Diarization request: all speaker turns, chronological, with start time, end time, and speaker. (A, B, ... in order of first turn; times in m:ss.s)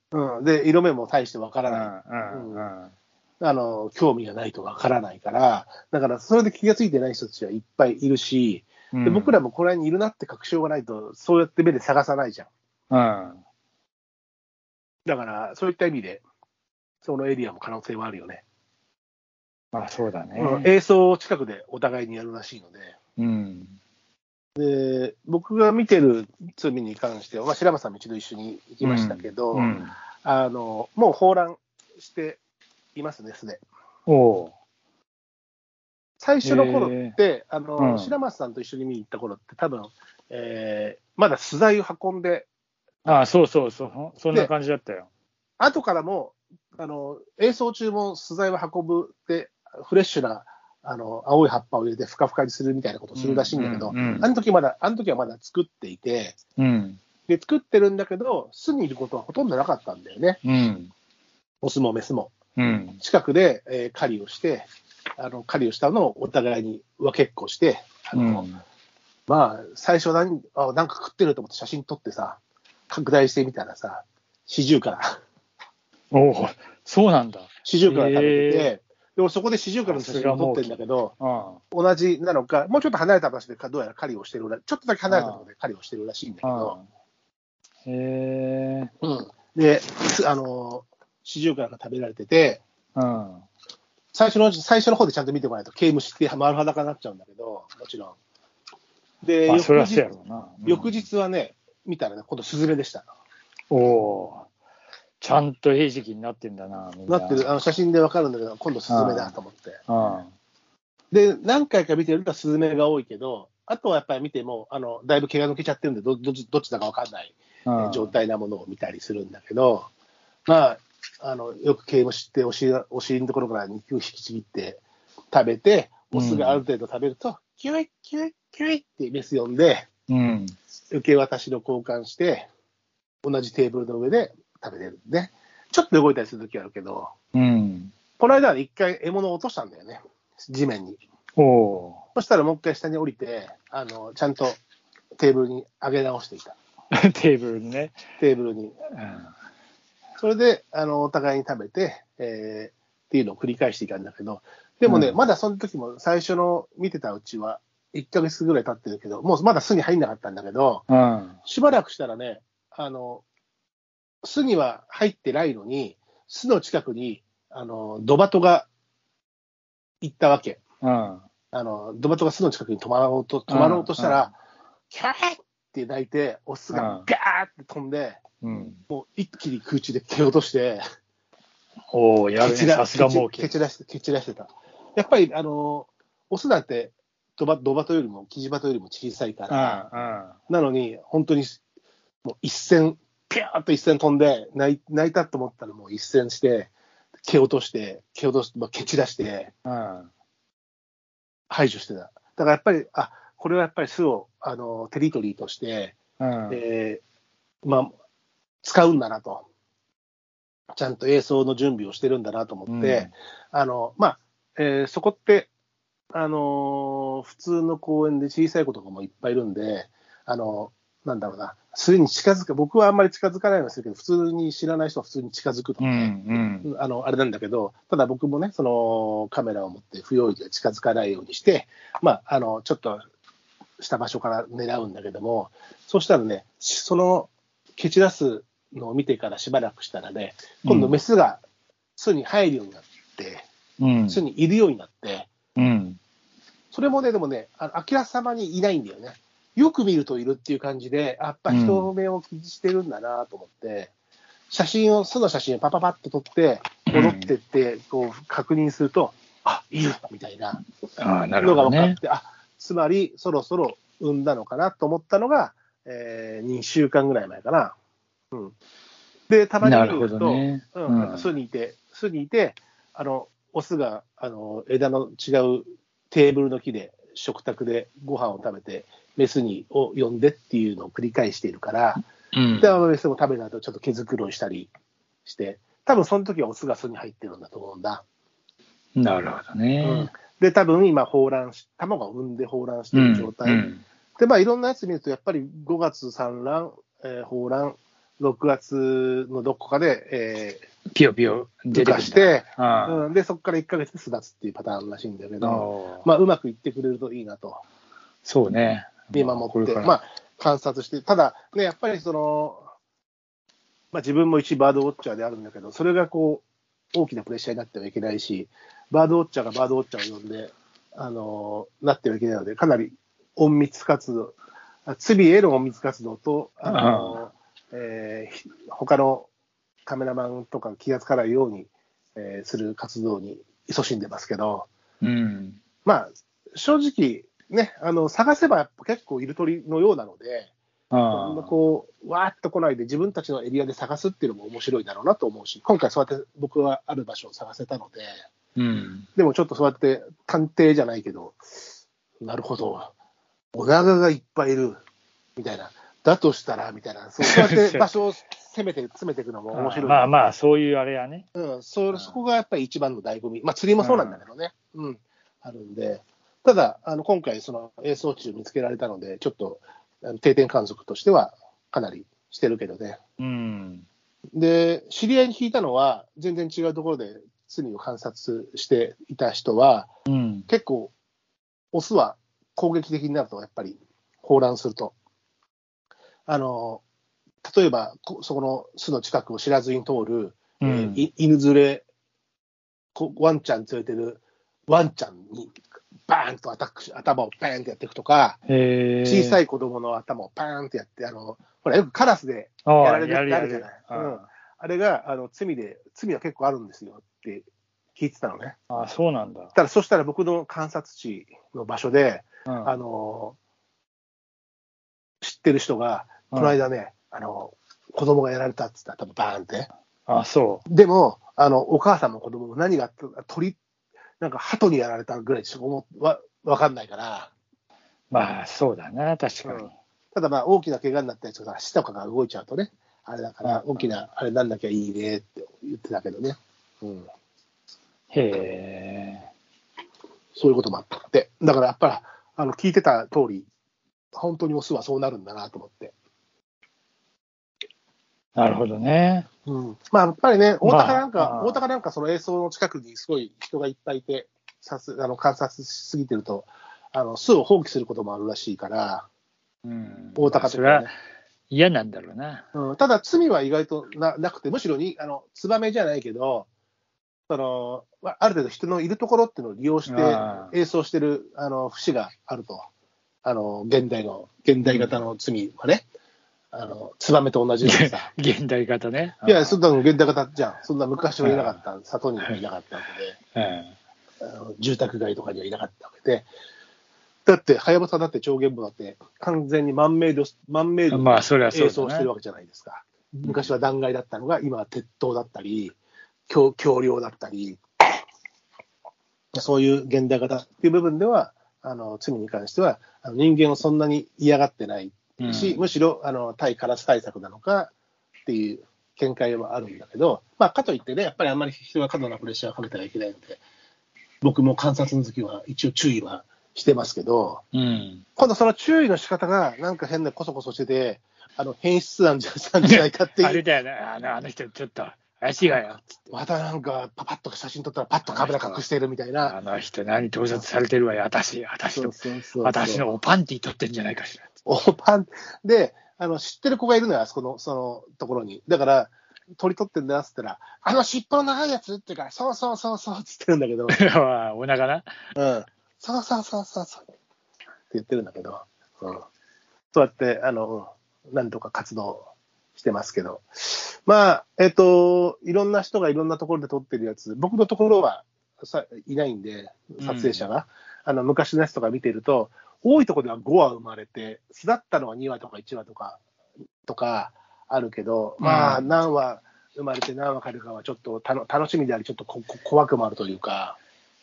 0:00.1-0:02.7 A
0:01.7-0:02.9 B
0:03.4-0:12.5 A
0:08.9-0:09.4 B
0:12.9-0:13.4 B
0:15.0-0:16.2 A
0:17.0-0:18.4 A
0:19.7-0:20.7 B
0:20.4-0:22.9 A
0:23.2-0:23.8 B
0:24.6-0:32.4 A
0:28.8-0:29.9 B
0:33.0-0:33.6 A
0:34.1-0:34.5 B
0:36.2-0:42.5 A
0:36.4-0:37.2 B
0:37.8-0:38.1 B
0:43.0-0:45.1 B
0:45.6-0:56.4 A
0:53.2-0:54.3 B
0:56.6-0:57.0 B
0:57.3-1:00.4 A
1:00.4-1:00.9 B
1:01.6-1:02.3 A
1:02.6-1:03.0 B
1:03.0-1:04.7 A
1:05.2-1:08.5 A
1:08.1-1:08.6 B
1:09.3-1:12.4 A
1:12.9-1:15.2 A
1:16.1-1:18.7 B
1:17.6-1:21.1 A
1:19.8-1:21.6 B
1:21.7-1:26.8 A
1:25.1-1:25.4 B
1:26.4-1:26.8 B
1:27.8-1:28.9 B
1:29.0-1:32.6 A
1:33.0-1:33.4 B
1:34.1-1:38.2 A
1:39.2-1:40.1 A
1:39.5-1:40.9 B
1:40.6-1:43.1 A
1:43.7-1:44.5 B
1:45.2-1:47.5 B
1:47.1-1:49.8 A
1:48.9-1:49.3 B
1:49.9-1:50.3 B
1:51.1-1:59.9 A
1:57.6-1:58.1 B
2:00.5-2:09.9 A
2:06.1-2:06.6 B
2:10.1-2:10.5 B
2:10.9-2:12.5 A
2:13.2-2:17.1 A
2:17.3-2:17.9 B
2:18.2-2:21.0 A
2:21.4-2:22.0 B
2:22.1-2:24.6 A
2:25.2-2:26.6 A
2:26.9-2:28.0 B
2:28.2-2:28.8 A
2:29.0-2:29.3 B
2:30.2-2:40.8 A
2:34.8-2:35.2 B
2:40.9-2:41.4 B
2:41.4-2:43.2 A
2:44.2-2:48.7 A
2:50.0-2:50.6 A
2:50.8-2:51.2 B
2:51.5-2:54.3 A
2:53.5-2:54.3 B
2:54.9-2:58.2 A
2:56.7-2:57.0 B
2:58.4-2:58.8 B
2:58.9-3:00.8 A
3:01.9-3:03.5 B
3:02.4-3:09.8 A
3:09.5-3:10.4 B
3:10.5-3:11.6 A
3:12.2-3:16.7 A
3:17.2-3:19.5 A
3:19.6-3:20.1 B
3:21.5-3:26.0 A
3:26.2-3:26.6 B
3:26.5-3:27.0 A
3:27.6-3:27.9 A
3:28.6-3:29.4 A
3:30.7-3:35.5 A
3:32.7-3:33.1 B
3:36.1-3:53.0 A
3:45.8-3:46.7 B
3:53.8-4:01.4 A
4:00.6-4:00.9 B
4:02.0-4:03.4 A
4:03.8-4:04.2 B
4:04.1-4:05.3 A
4:05.6-4:06.0 B
4:06.7-4:13.9 A
4:11.5-4:11.9 B
4:14.5-4:20.6 A
4:16.9-4:17.3 B
4:21.0-4:22.0 B
4:21.4-4:27.7 A
4:29.3-4:42.0 A
4:29.6-4:31.3 B
4:42.3-4:42.8 B
4:42.6-4:44.7 A
4:45.2-4:48.0 A
4:49.0-4:50.1 B
4:49.8-5:00.6 A
4:52.9-4:53.8 B
5:00.9-5:03.0 B
5:01.7-5:07.6 A
5:05.4-5:06.0 B
5:08.2-5:09.9 B
5:09.1-5:12.7 A
5:13.9-5:29.3 A
5:26.6-5:27.2 B
5:29.8-5:34.7 A
5:35.0-5:35.6 B
5:35.8-5:40.5 A
5:40.9-5:41.5 B
5:41.1-5:48.1 A
5:48.6-5:49.0 B
5:49.1-5:51.4 A
5:52.2-5:52.9 A
5:53.5-5:54.8 A
5:55.4-6:00.3 A
5:57.2-5:57.9 B
5:59.5-6:01.2 B
6:01.3-6:13.0 A
6:01.9-6:02.2 B
6:03.8-6:04.2 B
6:13.2-6:13.8 B
6:14.3-6:19.9 A
6:20.1-6:20.5 B
6:20.5-6:20.9 A
6:21.7-6:24.9 A
6:26.3-6:26.8 A
6:27.4-6:31.8 A
6:30.6-6:31.0 B
6:32.9-6:35.6 A
6:36.1-6:38.4 A
6:38.5-6:39.4 B
6:39.0-6:48.6 A
6:42.6-6:44.2 B
6:48.7-6:49.5 B
6:49.5-6:53.4 A
6:52.5-6:52.7 B
6:55.2-6:59.7 A
7:00.1-7:00.6 B
7:00.7-7:03.6 A
7:04.2-7:07.3 A
7:08.1-7:09.7 B
7:09.4-7:17.1 A
7:13.4-7:13.9 B
7:18.1-7:19.3 B
7:20.4-7:23.5 A
7:24.1-7:25.9 A
7:28.4-7:29.3 B
7:29.4-7:39.1 A
7:30.6-7:31.6 B
7:39.6-7:40.9 B
7:40.2-7:40.9 A
7:41.5-7:42.4 B
7:42.5-7:46.5 A
7:47.3-7:52.7 A
7:49.9-7:50.5 B
7:53.2-7:55.8 A
7:54.6-7:54.9 B
7:56.5-7:58.1 A
7:57.6-7:59.6 B
7:59.2-8:03.2 A
8:01.2-8:01.6 B
8:03.3-8:03.7 B
8:04.2-8:06.3 A
8:07.2-8:15.8 A
8:10.9-8:12.1 B
8:16.3-8:17.6 A
8:19.3-8:27.7 A
8:25.2-8:25.7 B
8:28.3-8:33.4 A
8:34.2-8:37.4 A
8:37.5-8:38.0 B
8:38.2-8:43.4 A
8:42.6-8:45.9 B
8:45.4-8:49.4 A
8:48.1-8:48.6 B
8:49.2-8:54.3 B
8:51.7-8:52.8 A
8:54.4-9:03.8 A
9:03.7-9:04.9 B
9:05.2-9:06.8 A
9:07.7-9:09.0 A
9:09.7-9:26.0 A
9:19.8-9:20.2 B
9:26.6-9:33.6 A
9:28.2-9:28.7 B